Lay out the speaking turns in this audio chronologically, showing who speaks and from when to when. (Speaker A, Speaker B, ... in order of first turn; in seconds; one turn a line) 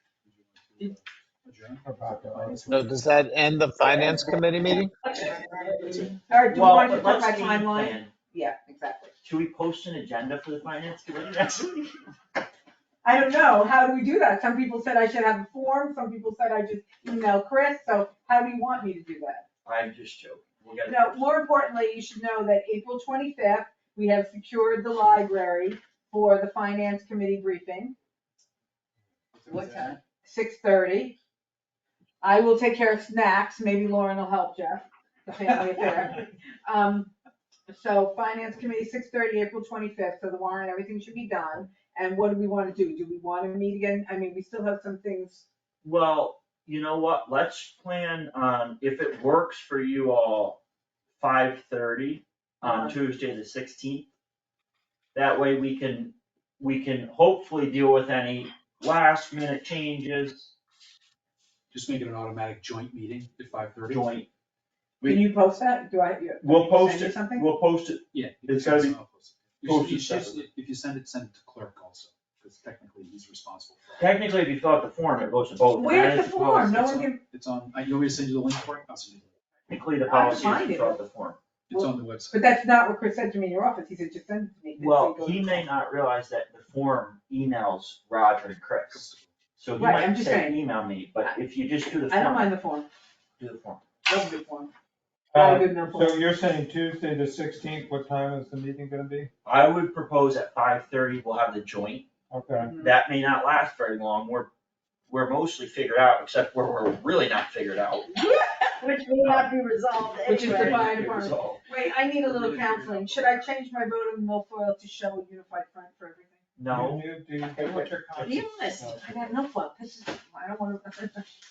Speaker A: 0.2-2.9
Speaker B: 1.8-2.6
Speaker C: 2.7-4.9
Speaker A: 5.8-6.2
Speaker D: 6.3-9.1
Speaker E: 6.5-8.1
Speaker E: 9.2-12.0
Speaker D: 13.0-19.4
Speaker E: 19.6-21.3
Speaker D: 20.9-27.9
Speaker A: 29.3-30.0
Speaker F: 29.5-30.0
Speaker D: 30.2-31.1
Speaker D: 32.2-37.1
Speaker D: 37.7-45.5
Speaker E: 45.8-50.6
Speaker E: 51.1-54.1
Speaker D: 52.6-53.0
Speaker E: 55.1-60.5
Speaker A: 61.7-64.2
Speaker E: 63.8-64.3
Speaker E: 65.0-65.3
Speaker D: 65.0-67.5
Speaker E: 66.4-69.0
Speaker A: 68.1-74.1
Speaker E: 69.6-70.4
Speaker E: 74.0-77.1
Speaker D: 75.8-77.2
Speaker A: 77.3-79.3
Speaker E: 79.7-81.4
Speaker D: 80.0-81.0
Speaker A: 81.7-82.5
Speaker D: 81.7-85.6
Speaker E: 84.8-92.5
Speaker A: 88.9-89.3
Speaker D: 89.8-90.6
Speaker D: 92.1-92.8
Speaker E: 93.4-93.8
Speaker D: 94.1-94.7
Speaker B: 95.3-99.3
Speaker D: 95.3-96.2
Speaker E: 99.4-102.1
Speaker B: 102.3-102.8
Speaker D: 102.6-102.9
Speaker E: 102.8-104.5
Speaker E: 105.1-108.1
Speaker F: 108.1-111.0
Speaker E: 109.2-109.5
Speaker D: 110.2-116.4
Speaker E: 110.3-111.6
Speaker A: 112.2-113.5
Speaker E: 116.6-118.4
Speaker B: 116.7-119.3
Speaker F: 118.2-119.0
Speaker D: 118.9-121.3